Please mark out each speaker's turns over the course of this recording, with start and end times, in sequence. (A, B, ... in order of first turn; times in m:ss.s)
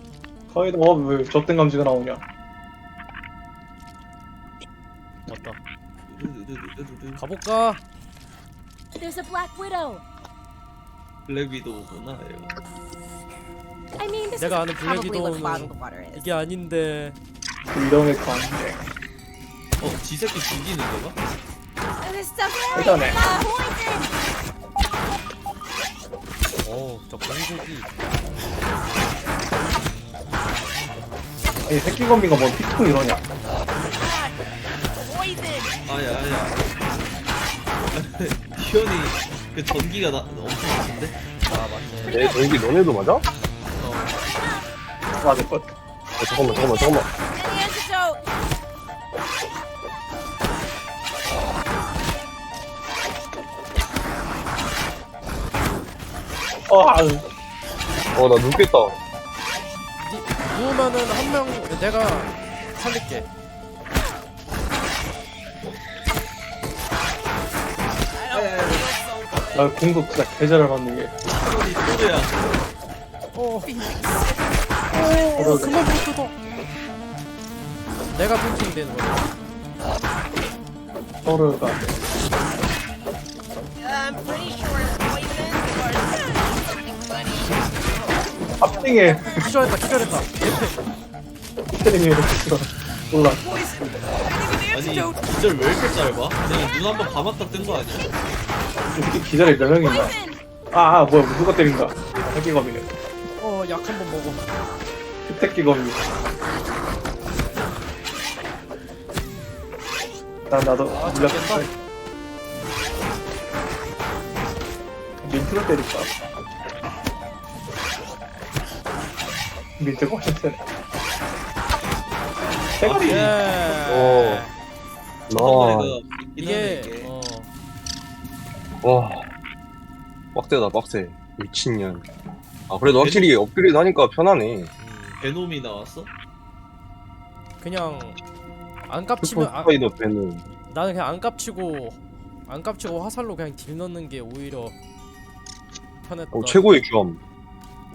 0:00.5-0:02.2 A
0:05.3-0:05.6 B
0:06.1-0:07.2 C
0:07.2-0:07.8 B
0:09.0-0:10.0 D
0:11.3-0:12.6 C
0:14.0-0:16.2 D
0:14.4-0:17.2 B
0:17.7-0:18.9 A
0:19.8-0:21.2 C
0:22.0-0:24.1 D
0:22.7-0:23.3 A
0:26.6-0:27.9 B
0:31.6-0:33.2 A
0:33.9-0:34.4 D
0:35.0-0:35.8 D
0:35.8-0:36.6 C
0:37.9-0:41.2 C
0:41.5-0:42.3 B
0:42.1-0:43.2 E
0:42.1-0:42.4 D
0:43.8-0:44.1 B
0:44.0-0:44.6 D
0:45.2-0:45.7 A
0:46.2-0:47.1 E
0:46.7-0:48.2 D
0:56.7-0:57.2 A
0:58.1-0:59.0 E
1:00.0-1:03.3 B
1:08.3-1:09.0 D
1:08.3-1:08.9 C
1:09.5-1:11.2 A
1:11.3-1:12.5 C
1:13.3-1:13.7 B
1:13.7-1:14.4 D
1:14.9-1:16.4 B
1:15.4-1:15.8 A
1:18.1-1:19.3 B
1:21.2-1:22.0 A
1:23.8-1:27.5 D
1:28.6-1:29.3 A
1:28.6-1:29.1 D
1:29.2-1:30.8 B
1:31.7-1:33.5 A
1:33.4-1:35.2 D
1:34.7-1:38.1 C
1:38.9-1:40.2 A
1:39.4-1:40.4 D
1:40.7-1:43.0 A
1:43.4-1:44.5 B
1:45.2-1:46.0 A
1:50.5-1:51.7 A
1:50.9-1:51.7 B
1:55.2-1:56.1 A
1:59.8-2:00.6 A
2:02.8-2:03.3 A
2:02.8-2:03.4 C
2:03.0-2:04.6 B
2:03.8-2:04.4 E
2:05.3-2:06.0 E
2:05.4-2:07.1 C
2:06.4-2:07.5 B
2:08.8-2:09.3 E
2:10.4-2:12.0 E
2:12.7-2:14.7 E
2:13.0-2:13.4 C
2:14.8-2:15.2 B
2:15.2-2:16.1 C
2:17.6-2:18.2 B
2:18.9-2:19.8 B
2:19.2-2:20.5 E
2:20.7-2:24.8 B
2:26.0-2:26.8 B
2:26.3-2:27.2 E